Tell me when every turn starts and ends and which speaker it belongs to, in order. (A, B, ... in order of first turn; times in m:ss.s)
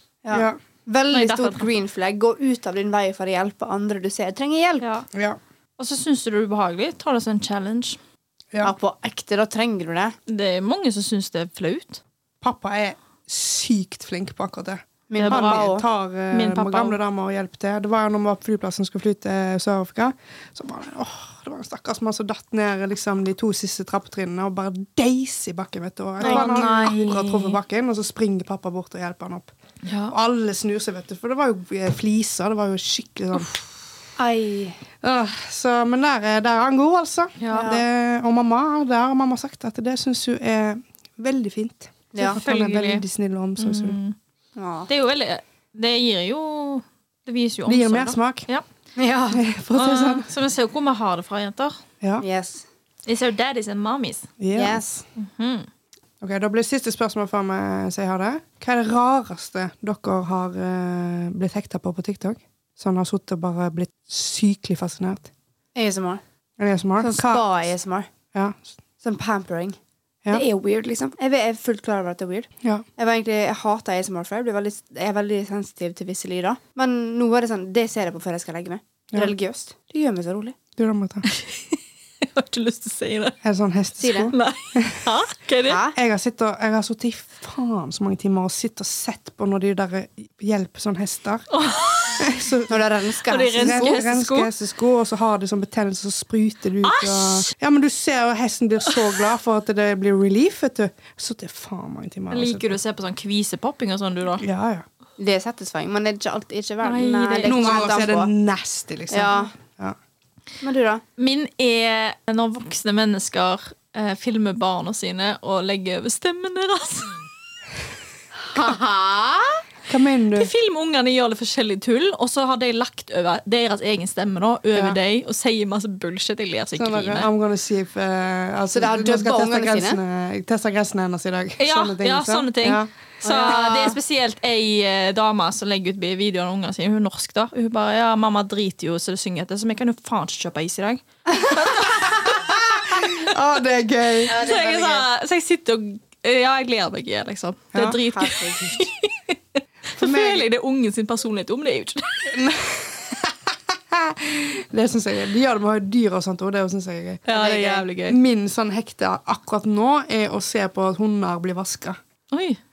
0:00.2-0:04.9 A
0:00.3-0:00.6 B
0:01.1-0:01.7 C
0:04.8-0:05.1 C
0:05.1-0:05.4 B
0:05.8-0:08.0 C
0:08.6-0:10.2 A
0:10.3-0:12.0 C
0:12.4-0:29.5 B
0:15.1-0:15.8 A
0:15.2-0:15.7 C
0:16.3-0:17.0 C
0:26.2-0:27.0 A
0:26.2-0:27.6 C
0:29.8-0:30.1 C
0:30.1-0:33.5 B
0:34.2-0:34.8 A
0:35.0-0:44.0 B
0:37.4-0:37.7 C
0:37.5-0:37.8 A
0:42.1-0:42.4 A
0:42.2-0:43.0 C
0:43.6-0:44.2 C
0:44.6-0:44.9 A
0:44.9-0:48.6 C
0:47.7-0:48.5 B
0:49.0-0:49.4 A
0:49.3-0:50.3 B
0:49.8-0:51.8 C
0:52.2-0:52.7 A
0:53.1-0:54.3 C
0:54.4-0:54.9 B
0:54.5-0:55.0 A
0:55.2-0:55.7 C
0:56.2-1:05.3 B
1:05.8-1:06.2 A
1:06.6-1:07.4 B
1:07.0-1:08.1 A
1:08.3-1:08.7 B
1:09.0-1:09.8 A
1:10.3-1:20.6 A
1:20.8-1:21.3 B
1:21.3-1:23.4 C
1:23.4-1:25.1 B
1:24.0-1:24.3 A
1:24.3-1:25.8 C
1:25.7-1:26.0 A
1:26.0-1:31.5 B
1:31.5-1:32.5 C
1:32.2-1:32.8 B
1:32.7-1:34.0 A
1:33.3-1:34.5 C
1:33.6-1:42.8 B
1:36.8-1:37.5 C
1:42.3-1:44.4 C
1:44.4-1:44.9 B
1:45.2-1:48.3 A
1:46.8-1:47.9 C
1:47.4-1:50.0 B
1:49.1-1:49.5 A
1:50.6-1:51.0 A
1:51.2-1:57.2 C
1:58.5-1:59.6 A
1:59.9-2:00.5 B
2:00.4-2:07.3 C
2:04.7-2:05.0 B
2:06.8-2:12.9 B
2:08.7-2:10.0 A
2:11.6-2:23.2 C
2:13.2-2:14.0 A
2:22.2-2:24.4 B
2:24.3-2:25.1 A
2:24.3-2:32.4 C
2:27.7-2:28.0 B
2:28.0-2:28.9 A
2:30.0-2:30.5 B
2:32.3-2:37.4 B
2:37.3-2:38.2 C
2:37.3-2:37.9 A
2:38.0-2:42.0 B
2:42.3-2:42.6 C